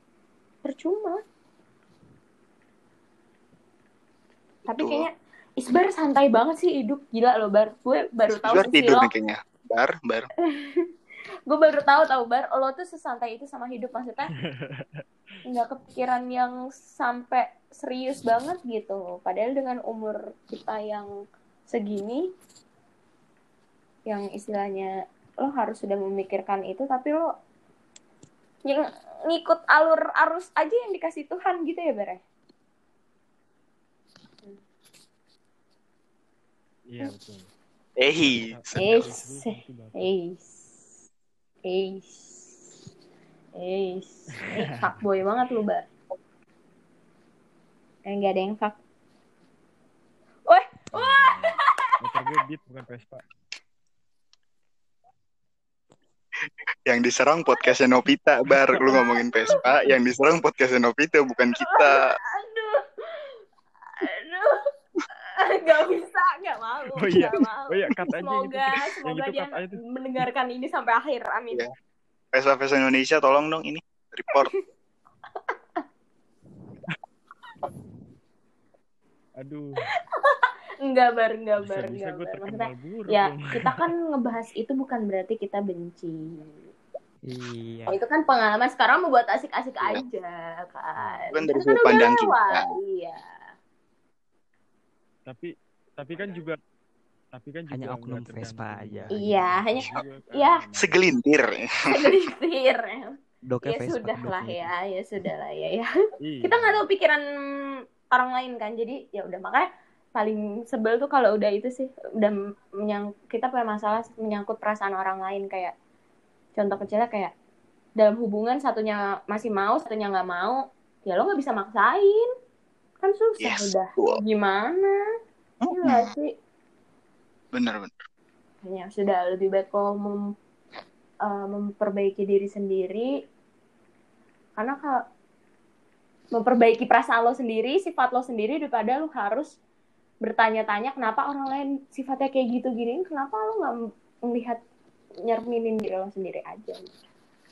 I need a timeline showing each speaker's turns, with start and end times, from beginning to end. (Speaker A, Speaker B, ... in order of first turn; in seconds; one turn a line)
Speaker A: 0.6-1.2
Speaker A: 4.7-9.1
Speaker B: 4.8-5.0
Speaker B: 8.3-10.3
Speaker A: 10.4-10.8
Speaker A: 11.5-14.3
Speaker C: 14.4-15.0
Speaker A: 15.4-21.1
Speaker A: 21.7-22.3
Speaker A: 24.1-27.3
Speaker A: 28.6-32.2
Speaker C: 36.9-37.4
Speaker B: 38.0-39.0
Speaker C: 38.1-40.1
Speaker A: 38.8-40.6
Speaker A: 41.6-42.6
Speaker A: 43.5-45.9
Speaker A: 48.0-48.8
Speaker A: 50.5-51.9
Speaker C: 50.9-53.2
Speaker B: 56.9-62.1
Speaker A: 58.9-59.6
Speaker A: 61.5-63.4
Speaker A: 64.0-64.6
Speaker A: 65.3-71.6
Speaker C: 66.9-69.8
Speaker B: 72.3-74.5
Speaker A: 74.3-74.6
Speaker A: 75.5-75.8
Speaker C: 79.4-79.8
Speaker A: 80.2-86.6
Speaker C: 81.6-83.8
Speaker D: 87.2-88.0
Speaker A: 87.9-93.5
Speaker D: 91.0-91.3
Speaker B: 91.3-92.7
Speaker C: 95.2-96.6
Speaker C: 97.3-101.1
Speaker D: 97.7-99.9
Speaker A: 99.1-100.6
Speaker B: 100.8-102.2
Speaker A: 101.9-105.9
Speaker D: 103.5-104.7
Speaker C: 106.2-106.9
Speaker A: 106.4-115.7
Speaker A: 116.5-117.3
Speaker A: 118.0-122.3
Speaker A: 123.0-125.0
Speaker B: 123.4-124.2
Speaker B: 125.6-126.1
Speaker A: 125.7-126.3
Speaker B: 127.5-128.0
Speaker A: 128.6-130.2
Speaker A: 131.2-133.1
Speaker A: 134.6-135.0
Speaker A: 136.3-139.5
Speaker A: 140.2-143.7
Speaker A: 144.2-144.6
Speaker A: 145.2-147.0